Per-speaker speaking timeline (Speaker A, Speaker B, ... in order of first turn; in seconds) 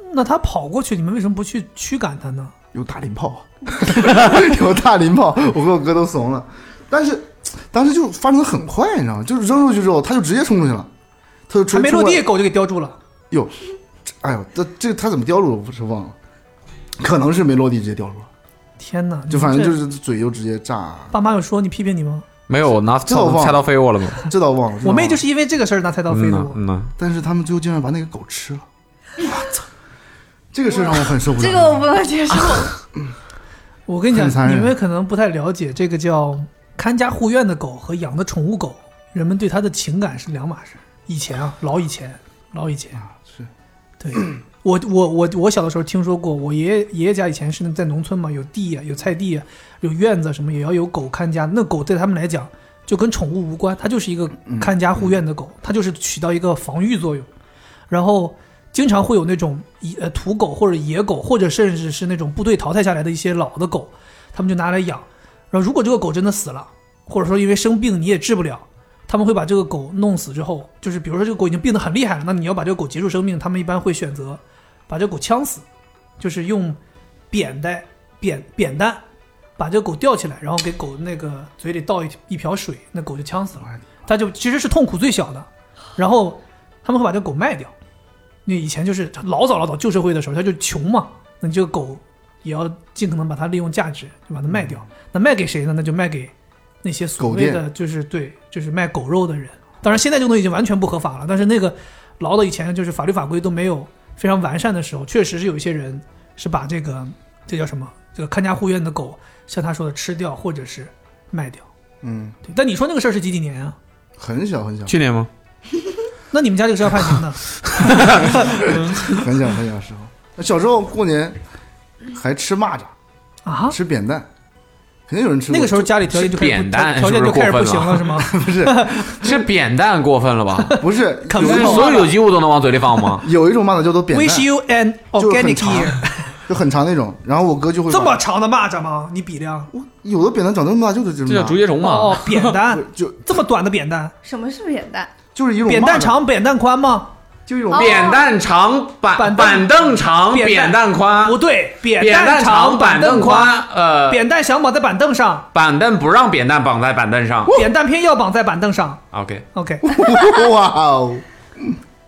Speaker A: 0.1-2.5, 11.7-13.0, 18.8-19.8, 21.1-22.2, 24.8-26.6, 33.9-43.0, 44.0-57.3, 57.9-75.6, 76.2-76.8, 77.3-79.0, 79.6-87.7, 88.4-111.6, 112.5-113.8, 116.3-118.4, 123.5-123.7, 125.5-129.1, 131.3-132.1, 134.1-136.1, 137.9-139.7, 141.8-144.1, 145.7-147.1, 149.2-155.5, 157.5-159.0, 159.5-159.8
Speaker B: 2.7-10.9, 11.5-12.2, 13.3-13.6, 14.2-16.1, 17.0-18.3, 19.3-21.1, 23.1-23.6, 24.3-25.2, 27.0-28.6, 29.2-29.5, 30.5-31.9, 34.1-34.7, 42.9-43.5, 54.4-55.2, 94.5-94.8, 97.2-97.6, 112.0-112.4, 114.2-114.9, 119.2-121.4, 122.1-122.9, 123.7-124.3, 125.1-125.9, 128.3-128.9, 130.8-132.0, 133.2-134.5, 135.1-138.2, 139.7-141.6, 142.7-143.3, 145.3-146.2, 147.5-148.1, 159.8-161.8
Speaker C: 22.5-24.3, 26.1-26.9, 114.9-115.3, 117.8-118.1, 126.1-128.2, 129.2-130.8, 131.3-133.2, 141.2-142.6, 147.7-151.4, 152.0-154.2, 155.5-157.6, 159.1-159.4
Speaker D: 30.7-32.7, 144.2-145.1, 147.7-148.2